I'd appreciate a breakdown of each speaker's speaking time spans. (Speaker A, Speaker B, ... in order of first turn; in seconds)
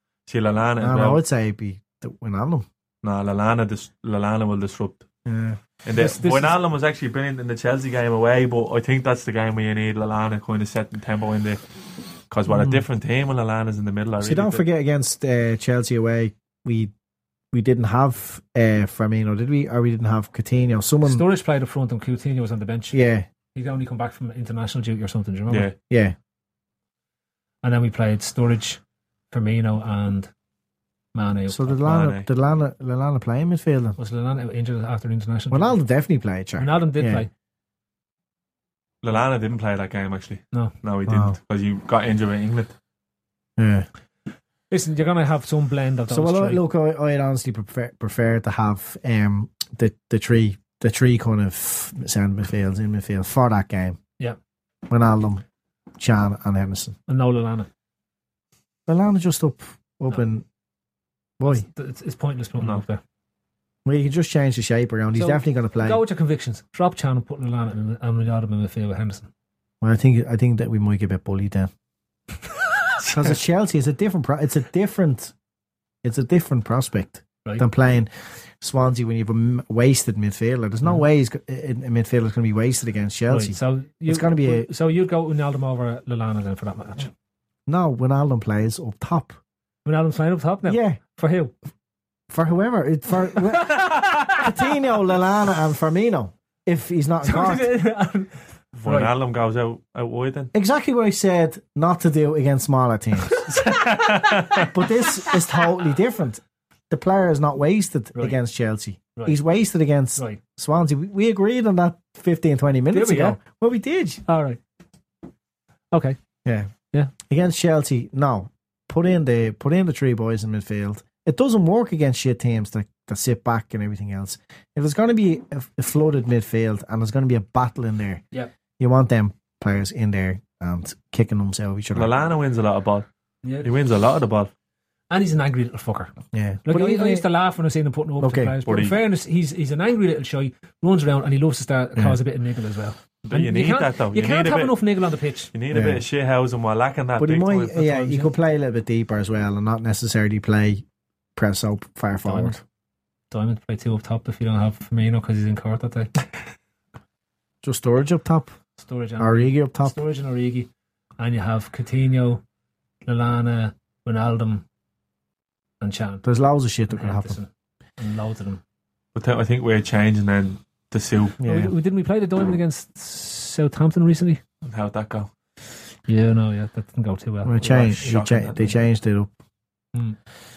Speaker A: 0.3-1.2, 3.0-5.0, 5.8-11.6, 12.3-14.6, 25.5-25.7, 31.8-32.3, 39.0-42.7, 98.7-100.5, 103.5-104.7, 131.9-133.1, 133.6-134.5, 138.6-139.0, 143.2-144.8, 145.5-147.8, 169.1-171.3, 174.6-175.3, 177.6-178.7
Speaker B: 0.8-2.7, 5.2-5.6, 12.5-12.8, 14.2-16.9, 17.5-21.2, 22.9-23.3, 25.9-26.1, 31.5-34.0, 35.5-37.2, 41.0-41.4, 43.6-43.9, 46.1-54.0, 54.9-55.4, 56.0-57.0, 58.9-60.4, 61.4-61.6, 63.8-66.0, 69.8-71.7, 73.1-75.3, 76.0-84.7, 87.7-89.4, 90.7-91.0, 92.3-97.7, 100.5-103.4, 104.6-114.2, 116.4-116.7, 117.2-128.2, 128.8-132.1, 136.3-137.3, 138.2-138.6, 145.7-146.0, 147.2-150.8, 151.3-152.6, 157.6-158.5, 159.2-160.0, 166.2-167.4, 171.4-171.7, 177.4-179.3
Speaker C: 6.0-6.5, 21.0-23.0, 23.5-25.7, 27.6-28.8, 29.3-30.3, 31.1-31.8, 34.0-35.8, 36.6-37.3, 44.7-46.6, 57.1-57.7, 61.4-63.0, 65.1-69.3, 83.3-87.1, 89.8-91.5, 93.8-94.3, 97.2-98.3, 98.8-99.1, 112.9-113.4, 114.3-114.6, 115.9-116.2, 135.1-136.1, 136.7-145.5, 147.8-148.3, 152.3-152.5, 153.3-156.1, 158.8-162.4, 163.1-164.6, 165.8-166.2, 166.9-167.5, 168.0-168.6, 171.4-174.4, 176.1-178.1